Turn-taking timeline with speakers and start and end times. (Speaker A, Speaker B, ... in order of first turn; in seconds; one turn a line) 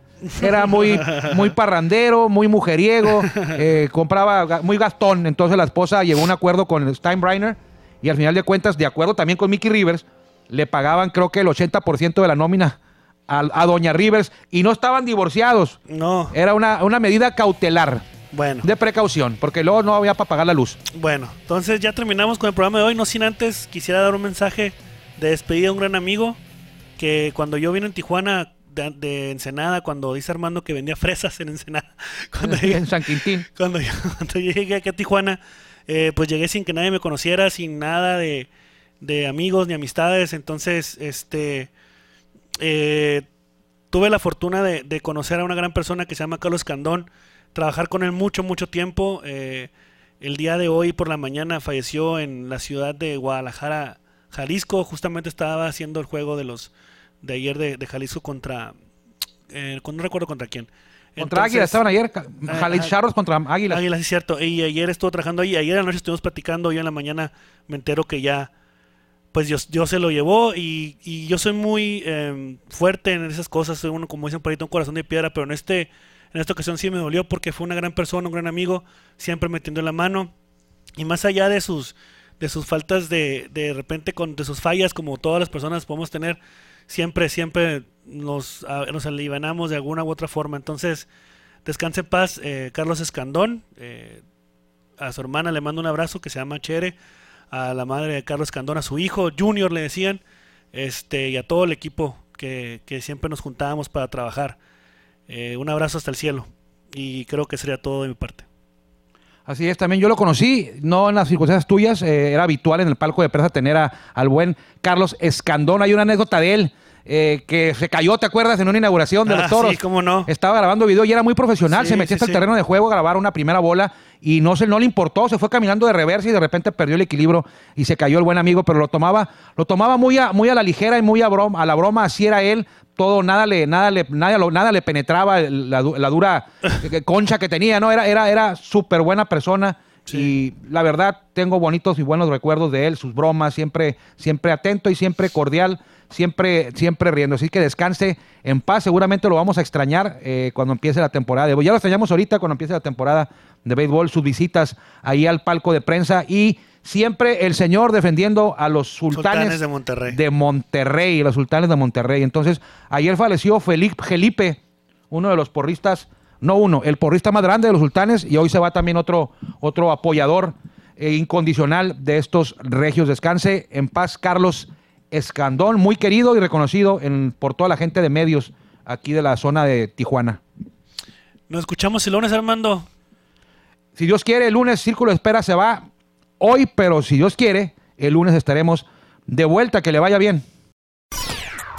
Speaker A: 0.3-1.5
Speaker B: 0.4-15.8
Speaker A: 15.9-16.4
Speaker B: 16.3-18.1
Speaker A: 18.3-18.7
Speaker B: 18.6-20.8
Speaker A: 20.9-26.4
Speaker A: 27.0-32.9
Speaker B: 32.4-33.5
Speaker A: 33.5-38.5
Speaker A: 39.0-41.7
Speaker A: 42.6-43.3
Speaker A: 43.9-49.7
Speaker A: 50.2-56.7
Speaker A: 57.2-58.7
Speaker A: 59.5-61.8
Speaker B: 61.2-63.8
Speaker A: 62.5-62.9
Speaker A: 63.7-68.5
Speaker A: 69.3-80.3
Speaker A: 81.0-91.1
Speaker A: 91.7-94.2
Speaker A: 95.0-97.0
Speaker A: 97.5-100.2
Speaker A: 100.7-104.6
Speaker A: 105.3-108.5
Speaker B: 109.5-164.6
Speaker A: 119.3-120.3
Speaker A: 121.7-122.5
Speaker A: 140.1-140.3
Speaker A: 159.1-160.2
Speaker B: 165.1-180.4
Speaker A: 181.5-182.9
Speaker B: 184.0-185.9
Speaker B: 186.4-190.4